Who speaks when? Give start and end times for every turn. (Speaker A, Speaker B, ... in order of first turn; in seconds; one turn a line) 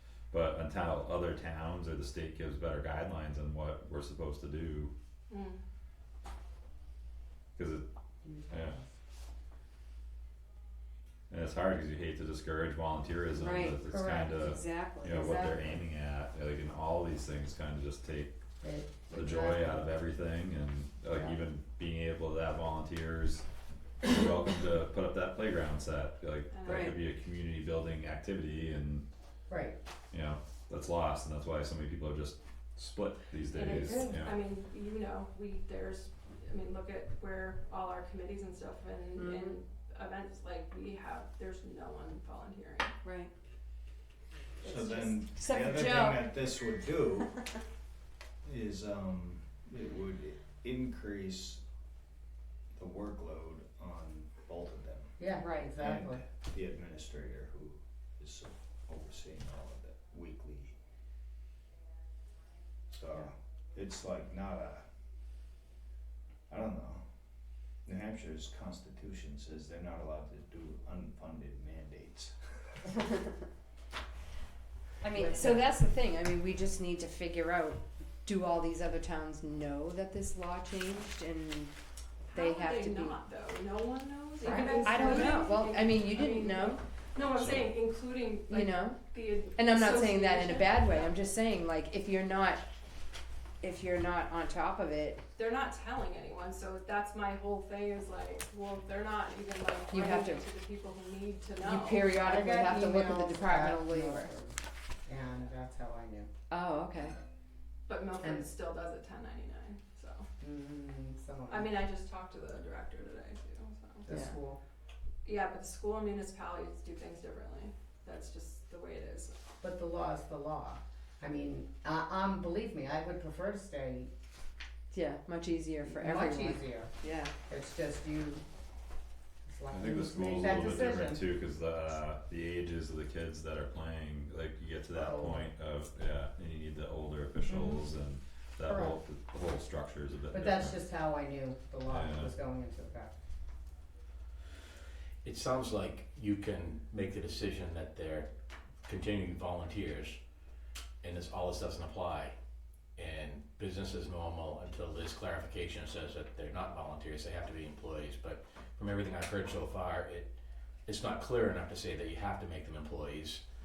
Speaker A: 0.3-4.9
Speaker B: 5.3-5.6
Speaker A: 7.5-7.8
Speaker C: 8.2-8.8
Speaker A: 8.5-8.8
Speaker A: 11.3-18.3
Speaker D: 13.3-15.2
Speaker C: 15.1-15.8
Speaker C: 18.6-19.8
Speaker A: 19.1-23.4
Speaker C: 21.1-21.4
Speaker A: 24.0-29.0
Speaker B: 26.5-26.9
Speaker D: 26.6-26.9
Speaker C: 29.5-29.8
Speaker A: 30.1-34.4
Speaker B: 33.5-42.9
Speaker D: 39.1-39.5
Speaker D: 43.0-43.3
Speaker B: 44.6-45.1
Speaker E: 44.6-47.3
Speaker D: 45.3-46.4
Speaker E: 48.4-51.6
Speaker E: 52.7-55.2
Speaker C: 55.2-56.2
Speaker D: 55.4-55.8
Speaker E: 55.8-60.8
Speaker E: 62.9-64.8
Speaker E: 66.5-67.0
Speaker E: 67.8-72.8
Speaker D: 75.0-81.7
Speaker B: 75.2-75.6
Speaker D: 82.3-83.2
Speaker B: 82.3-91.1
Speaker D: 84.4-86.8
Speaker A: 87.3-87.7
Speaker D: 88.5-92.6
Speaker D: 93.6-95.2
Speaker B: 95.3-102.0
Speaker D: 99.9-100.4
Speaker D: 101.6-104.5
Speaker C: 102.2-104.5
Speaker C: 105.0-106.3
Speaker D: 106.5-107.2
Speaker B: 107.9-110.2
Speaker C: 108.2-108.5
Speaker C: 110.4-111.7
Speaker B: 111.5-114.0
Speaker C: 114.0-114.6
Speaker D: 114.1-114.4
Speaker B: 115.2-119.3
Speaker C: 119.6-124.1
Speaker D: 124.9-127.3
Speaker C: 125.8-126.9
Speaker C: 127.5-128.4
Speaker C: 129.4-131.2
Speaker A: 129.7-140.8
Speaker D: 130.2-131.1
Speaker C: 134.9-135.5
Speaker C: 137.5-137.8
Speaker C: 138.7-139.0
Speaker C: 140.3-143.1
Speaker A: 141.9-142.3
Speaker F: 145.2-148.3
Speaker F: 148.8-150.2
Speaker F: 151.0-152.3
Speaker F: 152.9-160.3
Speaker F: 160.9-163.4